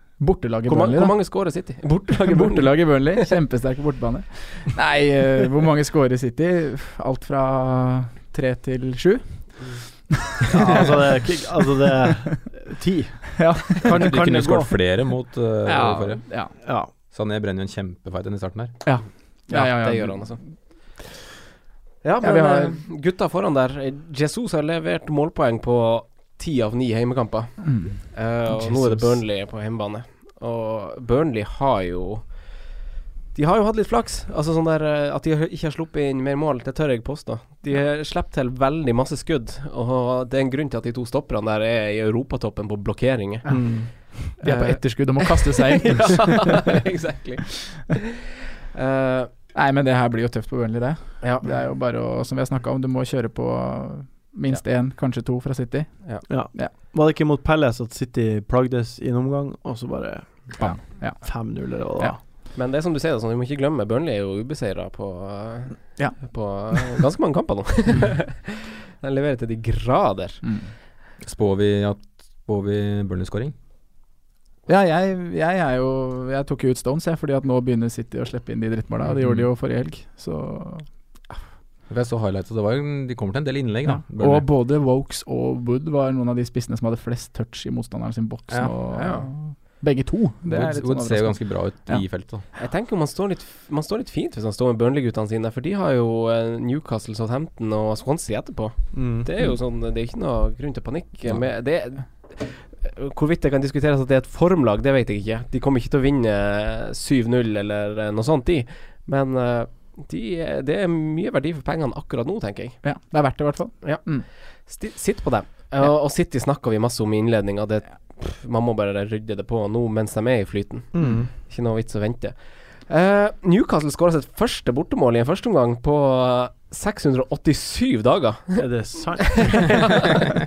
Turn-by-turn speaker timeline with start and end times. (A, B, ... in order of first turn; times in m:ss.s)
0:00.2-0:11.5 A
0:00.7-0:03.2 B
0:10.5-0:14.7 C
0:13.4-0:14.3 A
0:13.9-0:16.3 D
0:15.6-0:16.6 A
0:16.6-0:16.9 C
0:16.9-0:18.8 D
0:18.8-0:21.0 A
0:19.5-0:20.4 B
0:22.0-0:32.6 B
0:22.2-0:22.8 A
0:27.6-0:29.2 A
0:33.3-0:48.0 B
0:43.5-0:46.8 A
0:43.5-0:44.2 C
0:48.7-0:49.3 B
0:49.5-0:56.7 A
0:51.2-0:51.5 B
0:56.3-1:02.2 C
1:00.6-1:02.2 A
1:02.5-1:10.4 B
1:06.0-1:06.8 A
1:10.4-1:10.7 A
1:11.2-1:13.5 D
1:14.7-1:20.9 A
1:19.0-1:19.5 D
1:21.9-1:24.5 D
1:23.8-1:32.1 A
1:28.5-1:28.7 D
1:28.9-1:29.3 B
1:30.5-1:32.4 D
1:32.5-1:52.9 B
1:38.9-1:39.3 C
1:41.2-1:41.5 D
1:52.8-1:54.3 A
1:53.8-2:10.2 B
2:00.9-2:01.3 C
2:01.0-2:01.3 A
2:08.6-2:10.0 C